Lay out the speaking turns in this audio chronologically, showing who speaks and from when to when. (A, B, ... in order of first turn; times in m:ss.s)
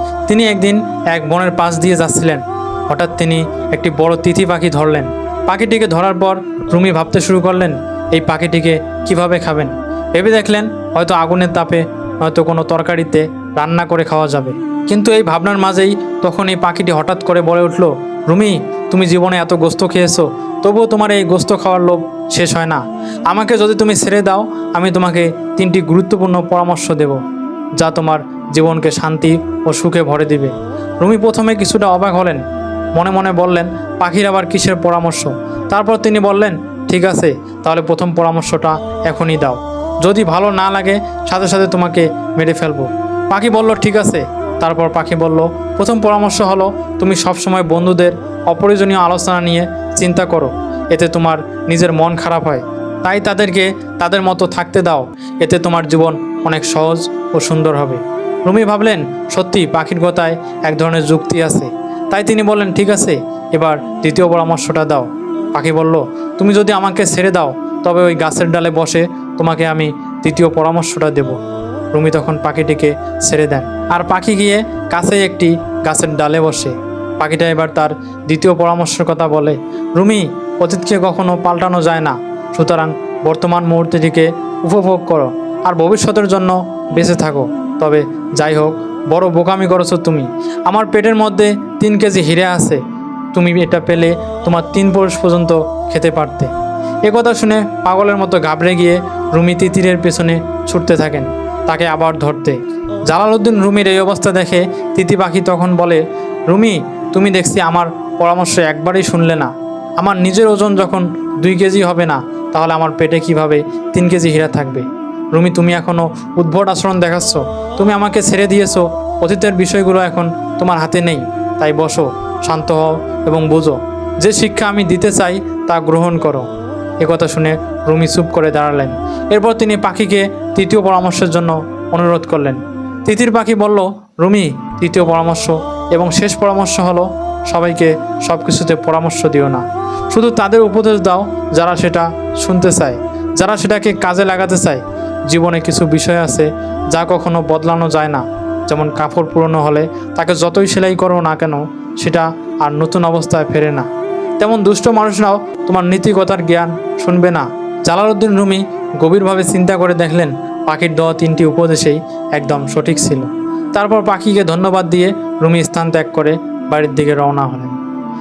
0:00.3-0:27.2 A
0:27.8-0:32.4 A
0:33.0-1:11.4 A
1:11.9-1:32.8 A
1:33.3-1:36.5 A
1:37.0-2:06.5 A
2:07.0-2:33.9 A
2:34.4-2:47.8 A